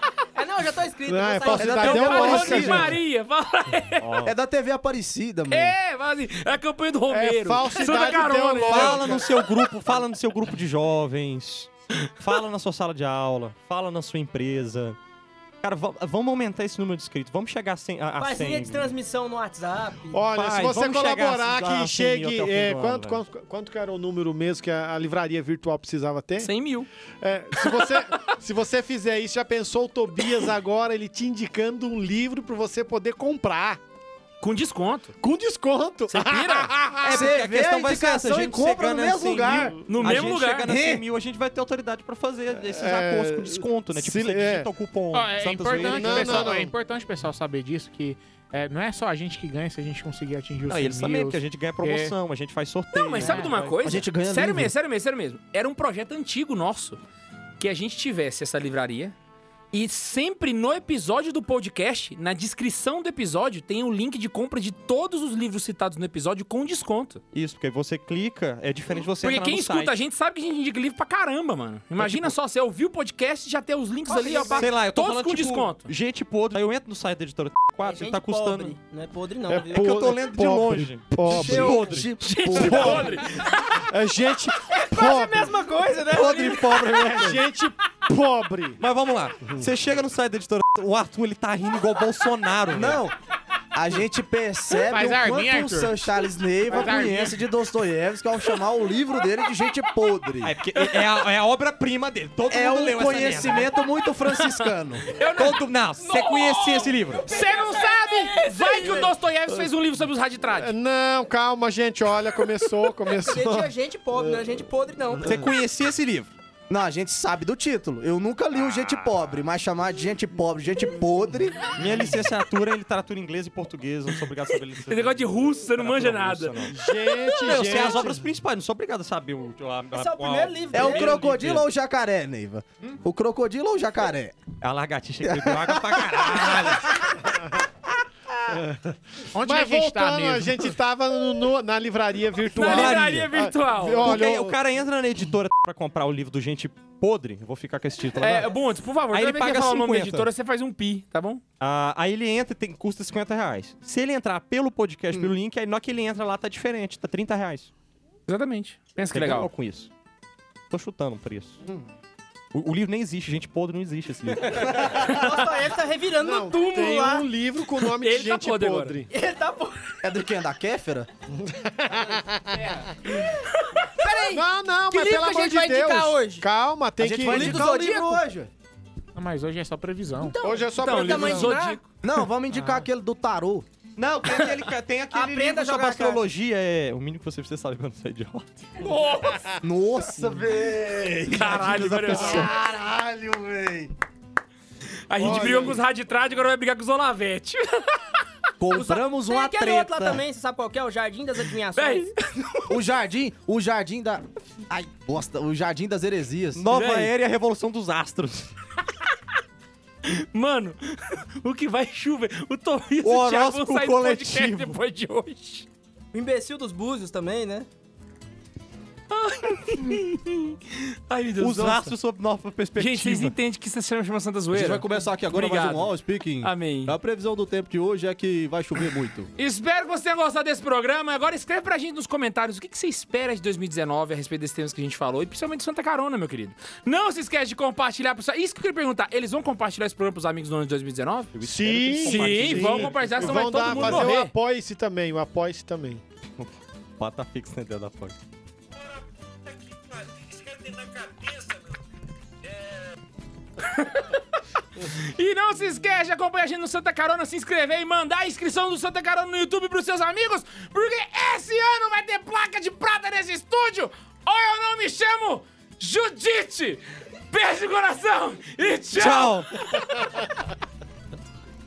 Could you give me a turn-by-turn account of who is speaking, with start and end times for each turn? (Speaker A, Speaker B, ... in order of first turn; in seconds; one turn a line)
Speaker A: 0.3-2.6
Speaker B: 1.1-3.0
Speaker C: 1.5-2.9
Speaker D: 1.7-4.2
Speaker E: 4.0-4.3
Speaker C: 4.2-5.8
Speaker D: 5.5-9.3
Speaker B: 7.1-9.4
Speaker E: 8.7-15.0
Speaker E: 15.6-18.9
Speaker A: 18.2-20.2
Speaker B: 20.1-26.5
Speaker E: 20.4-23.2
Speaker D: 26.4-26.9
Speaker B: 27.2-33.8
Speaker D: 27.6-28.2
Speaker D: 34.4-35.1
Speaker B: 35.2-37.3
Speaker D: 36.1-36.8
Speaker E: 37.0-46.6
Speaker C: 37.0-41.0
Speaker D: 39.9-40.7
Speaker B: 42.6-44.7
Speaker F: 45.1-52.1
Speaker B: 45.7-46.7
Speaker E: 50.7-53.8
Speaker D: 52.9-57.0
Speaker C: 53.2-54.7
Speaker D: 57.6-59.1
Speaker D: 59.7-67.2
Speaker E: 67.3-69.9
Speaker D: 69.2-75.9
Speaker E: 72.0-72.3
Speaker A: 74.1-74.7
Speaker E: 74.5-78.8
Speaker A: 77.8-79.9
Speaker B: 79.5-83.2
Speaker E: 79.7-82.6
Speaker C: 81.3-83.2
Speaker D: 82.2-83.9
Speaker B: 83.9-85.6
Speaker A: 84.7-87.3
Speaker E: 86.0-87.4
Speaker B: 87.1-88.8
Speaker E: 88.8-93.0
Speaker C: 92.7-93.2
Speaker C: 93.7-100.5
Speaker F: 94.8-96.1
Speaker F: 96.7-97.4
Speaker E: 100.4-103.7
Speaker D: 100.7-101.1
Speaker C: 102.5-105.0
Speaker D: 104.3-106.5
Speaker E: 105.3-107.3
Speaker A: 106.3-109.1
Speaker D: 107.2-110.7
Speaker B: 110.5-113.7
Speaker A: 113.0-115.5
Speaker E: 115.2-116.3
Speaker C: 116.7-121.7
Speaker E: 121.7-126.8
Speaker D: 124.5-127.3
Speaker B: 126.7-128.2
Speaker E: 127.3-131.7
Speaker A: 129.9-131.2
Speaker C: 130.7-134.4
Speaker E: 134.6-137.2
Speaker C: 135.2-136.9
Speaker B: 138.5-144.6
Speaker F: 139.3-140.7
Speaker D: 142.6-144.2
Speaker E: 142.6-143.3
Speaker E: 144.0-148.5
Speaker D: 148.2-151.4
Speaker E: 149.1-150.3
Speaker E: 151.6-157.7
Speaker D: 158.3-159.5
Speaker E: 159.1-159.9
Speaker E: 160.7-161.6
Speaker E: 162.5-164.9
Speaker A: 164.6-167.3
Speaker B: 166.2-169.1
Speaker D: 168.0-169.0
Speaker A: 169.1-169.9
Speaker C: 170.0-171.1
Speaker B: 171.3-173.1
Speaker D: 173.5-173.9
Speaker A: 174.0-176.5
Speaker B: 174.3-177.7
Speaker C: 177.0-178.5
Speaker A: 177.3-178.3
Speaker F: 179.2-180.4
Speaker A: 180.2-181.8
Speaker B: 180.4-181.7
Speaker D: 180.8-181.9
Speaker C: 182.0-183.7
Speaker E: 184.0-188.9
Speaker A: 185.1-186.2
Speaker D: 188.8-189.4
Speaker C: 189.6-193.9
Speaker D: 191.3-192.5
Speaker E: 191.7-192.3
Speaker D: 195.1-198.0
Speaker C: 195.2-195.8
Speaker B: 195.3-195.6
Speaker C: 198.6-200.2
Speaker A: 198.7-202.1
Speaker D: 201.8-202.8
Speaker C: 202.7-206.7
Speaker E: 206.6-208.5
Speaker D: 206.7-207.1
Speaker D: 210.1-215.7
Speaker E: 213.0-214.8
Speaker A: 216.1-217.7
Speaker D: 219.1-221.9
Speaker E: 221.4-223.3
Speaker D: 222.8-227.0
Speaker C: 224.5-229.3
Speaker D: 229.4-241.3
Speaker E: 241.3-244.1
Speaker B: 241.4-246.0
Speaker D: 242.0-244.3
Speaker E: 247.0-248.2
Speaker E: 250.6-251.2
Speaker D: 253.6-254.2
Speaker D: 254.8-270.3
Speaker E: 268.9-269.5